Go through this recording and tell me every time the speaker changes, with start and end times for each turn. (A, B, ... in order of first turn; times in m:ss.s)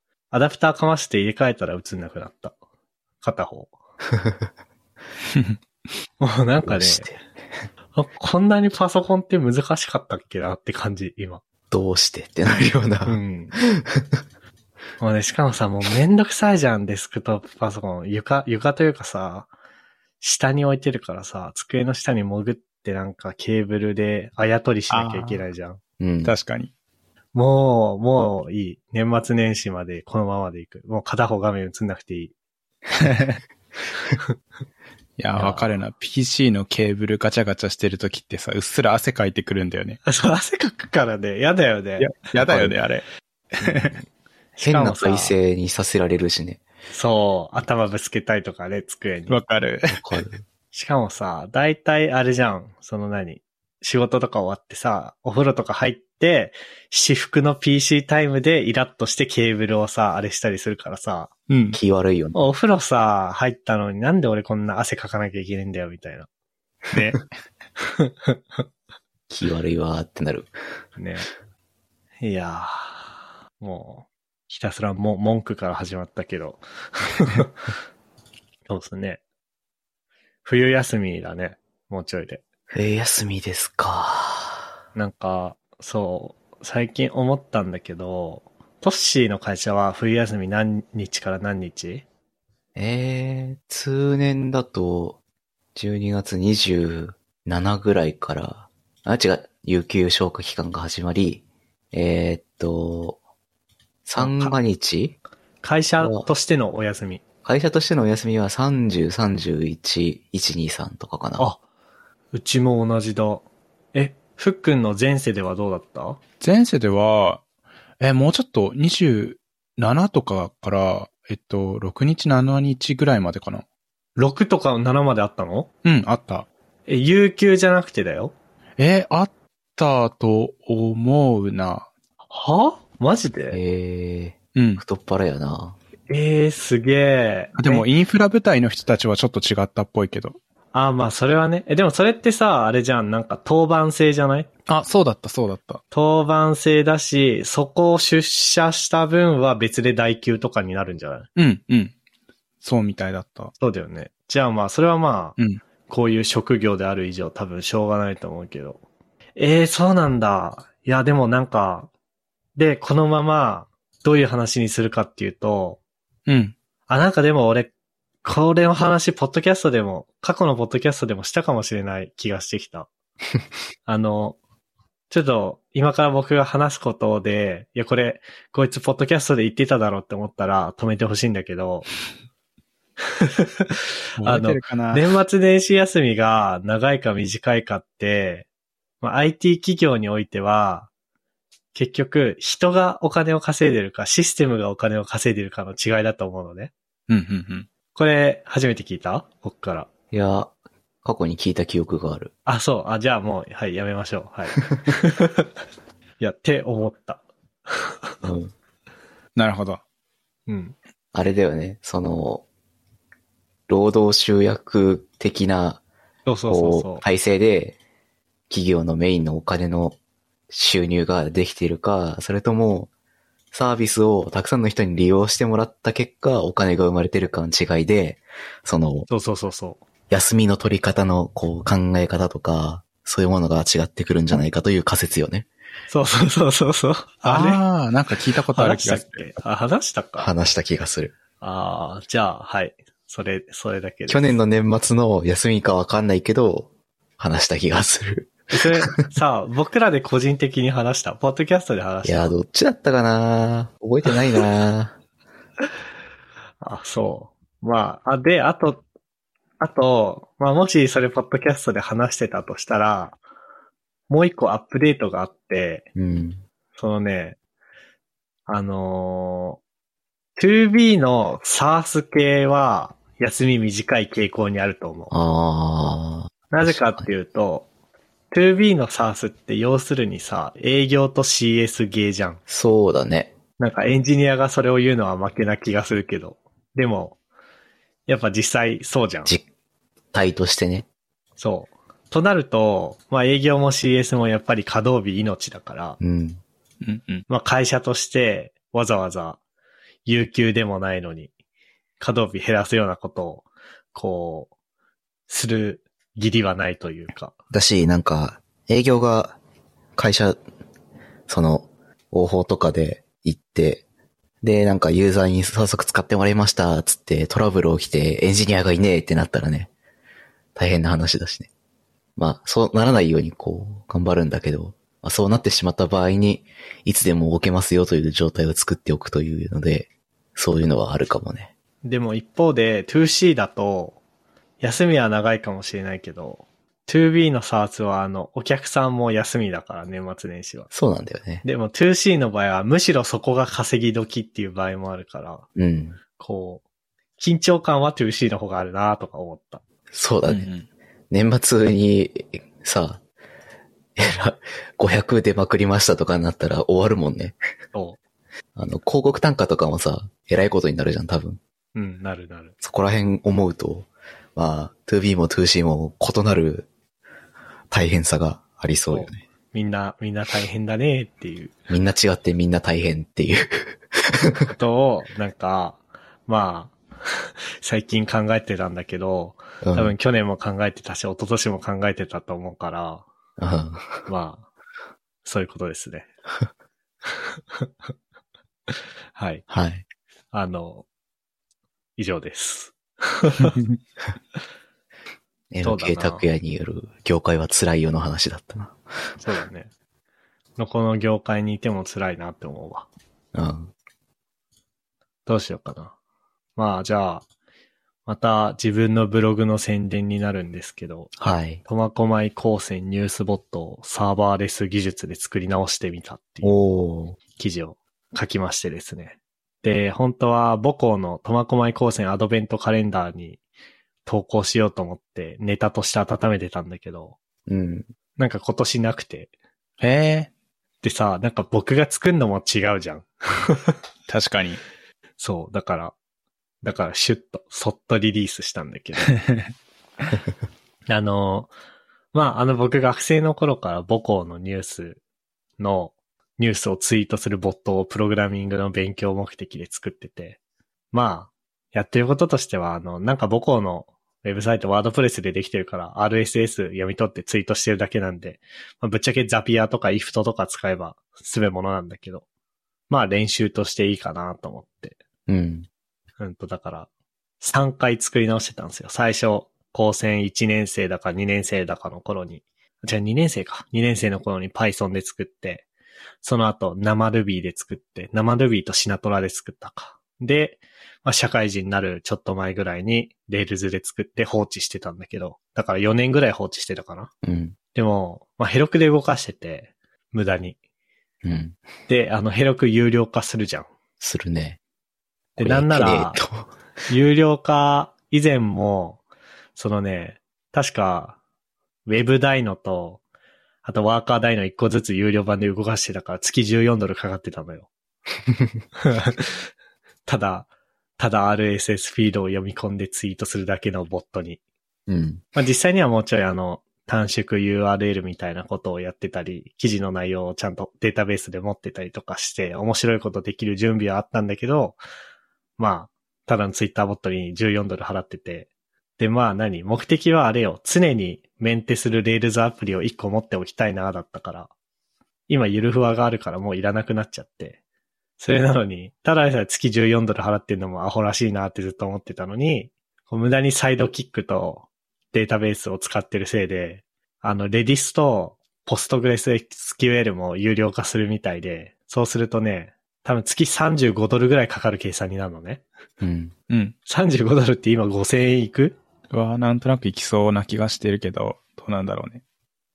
0:00.3-0:02.5 A
0:03.2-0:03.7 A
0:04.1-0:04.5 B
0:06.2-0:07.1 A
0:06.6-0:07.6 B
0:07.9-0:11.4 A
0:11.7-0:14.2 B
0:13.0-0:13.5 A
0:15.0-0:19.5 A
0:20.2-0:25.8 A
0:24.9-0:25.4 C
0:26.0-0:26.3 B
0:26.2-0:26.7 C
0:27.3-0:32.3 A
0:33.0-0:33.4 C
0:35.2-0:40.0 C
0:35.4-0:35.6 A
0:40.0-0:42.2 A
0:42.0-0:43.0 C
0:42.5-0:42.7 B
0:43.6-0:43.9 C
0:43.6-0:43.9 B
0:44.6-0:45.4 A
0:44.6-0:46.6 B
0:46.9-0:49.4 A
0:49.3-0:50.0 C
0:49.9-0:50.4 B
0:50.7-1:01.8 A
1:01.7-1:02.4 B
1:02.3-1:06.3 A
1:06.9-1:07.2 A
1:08.0-1:08.6 A
1:09.3-1:10.5 B
1:11.0-1:11.3 A
1:12.2-1:13.0 A
1:13.6-1:17.5 A
1:18.7-1:19.2 A
1:20.4-1:22.4 A
1:22.7-1:24.7 B
1:24.9-1:32.0 A
1:32.7-1:35.2 B
1:35.7-1:43.2 B
1:44.0-1:45.2 B
1:44.2-1:44.5 A
1:45.6-1:47.2 A
1:46.0-1:46.3 B
1:47.4-1:51.5 B
1:52.3-1:56.2 A
1:56.4-1:57.4 C
1:58.0-2:03.6 C
2:04.2-2:05.7 A
2:05.8-2:06.5 C
2:06.9-2:08.3 A
2:08.8-2:11.9 C
2:12.3-2:13.6 A
2:13.5-2:15.8 B
2:14.6-2:14.8 C
2:16.1-2:17.8 A
2:17.6-2:20.4 C
2:20.7-2:24.5 A
2:24.7-2:25.8 C
2:25.9-2:31.3 A
2:31.4-2:31.9 C
2:32.6-2:33.5 C
2:33.6-2:35.4 A
2:35.9-2:38.8 A
2:39.4-2:41.9 A
2:42.6-2:45.8 A
2:46.3-2:46.5 C
2:46.9-2:47.7 A
2:48.2-2:52.9 A
2:53.8-2:54.4 A
2:55.1-3:01.9 A
3:03.2-3:08.4 A
3:04.2-3:05.0 C
3:09.0-3:10.9 A
3:11.7-3:16.7 A
3:17.1-3:17.7 C
3:17.9-3:19.9 A
3:20.1-3:22.3 B
3:22.4-3:25.5 A
3:26.2-3:27.9 A
3:28.2-3:28.5 B
3:29.4-3:29.8 C
3:30.5-3:30.8 A
3:31.1-3:32.4 B
3:33.7-3:35.8 B
3:36.2-3:37.0 A
3:36.5-3:37.8 B
3:38.5-3:40.0 B
3:40.5-3:42.9 B
3:43.5-3:49.1 B
3:49.1-3:49.8 A
3:50.1-3:55.5 B
3:55.9-3:57.6 A
3:57.2-3:59.3 C
3:58.5-4:00.3 A
4:00.2-4:01.1 B
4:01.4-4:04.4 A
4:04.1-4:09.0 B
4:08.5-4:12.3 A
4:12.0-4:15.0 B
4:16.6-4:18.8 A
4:19.6-4:23.2 A
4:24.1-4:25.8 A
4:25.9-4:26.4 B
4:26.8-4:27.4 A
4:28.5-4:29.6 A
4:30.4-4:35.1 A
4:35.1-4:37.1 B
4:36.5-4:37.7 A
4:38.3-4:42.4 A
4:42.5-4:43.3 B
4:43.6-4:47.2 A
4:48.1-4:49.3 A
4:50.1-4:50.9 B
4:51.4-4:56.0 A
4:56.0-4:56.4 B
4:56.8-4:57.2 C
4:57.3-4:59.4 A
5:00.0-5:01.3 A
5:02.0-5:04.5 A
5:05.3-5:07.3 A
5:07.5-5:09.4 B
5:10.0-5:10.4 B
5:11.3-5:13.8 B
5:14.4-5:19.7 B
5:20.6-5:21.5 B
5:22.2-5:31.5 B
5:31.8-5:34.0 A
5:34.6-5:40.7 A
5:40.7-5:41.4 B
5:41.4-5:45.4 A
5:45.6-5:46.0 B
5:46.2-5:46.6 A
5:47.2-5:49.6 A
5:49.9-5:50.5 B
5:50.3-5:50.6 C
5:51.1-5:53.0 B
5:54.0-5:57.4 B
5:58.6-6:01.4 B
6:01.7-6:02.5 A
6:02.6-6:06.7 B
6:07.7-6:09.2 B
6:08.9-6:11.5 A
6:11.7-6:14.5 B
6:14.5-6:23.0 A
6:19.6-6:19.9 B
6:23.4-6:24.1 B
6:24.1-6:24.5 A
6:25.2-6:26.1 A
6:29.1-6:29.4 A
6:29.5-6:29.8 B
6:30.3-6:30.8 A
6:32.0-6:33.6 A
6:35.5-6:38.8 B
6:35.6-6:36.2 A
6:39.2-6:39.7 A
6:40.6-6:42.9 A
6:43.3-6:43.7 B
6:45.2-6:45.9 A
6:46.6-6:47.2 A
6:48.0-6:56.5 A
6:51.2-6:51.6 B
6:56.4-6:57.2 B
6:57.3-7:03.4 A
7:04.0-7:07.2 A
7:07.5-7:07.9 B
7:08.2-7:09.3 A
7:09.8-7:10.3 C
7:10.8-7:13.8 A
7:14.1-7:14.6 C
7:15.2-7:15.9 A
7:16.6-7:19.2 A
7:20.9-7:21.5 A
7:22.1-7:25.0 A
7:25.6-7:30.4 A
7:30.9-7:42.2 A
7:42.9-7:45.0 A
7:45.3-7:45.7 B
7:46.2-7:46.9 A
7:47.4-7:55.6 A
7:56.2-8:07.1 A
8:07.2-8:07.6 B
8:07.7-8:10.6 A
8:11.2-8:11.6 B
8:11.9-8:13.7 A
8:14.0-8:14.6 B
8:15.4-8:16.2 A
8:15.4-8:16.5 B
8:16.9-8:19.0 A
8:19.6-8:21.2 A
8:21.8-8:23.0 A
8:23.6-8:27.7 A
8:28.8-8:29.4 A
8:30.0-8:34.4 A
8:34.9-8:35.2 B
8:35.3-8:44.8 A
8:45.6-8:54.5 A
8:55.3-8:57.6 A
8:58.2-9:15.6 A
9:16.0-9:16.3 B
9:16.5-9:16.7 C
9:16.8-9:18.8 A
9:19.1-9:22.2 C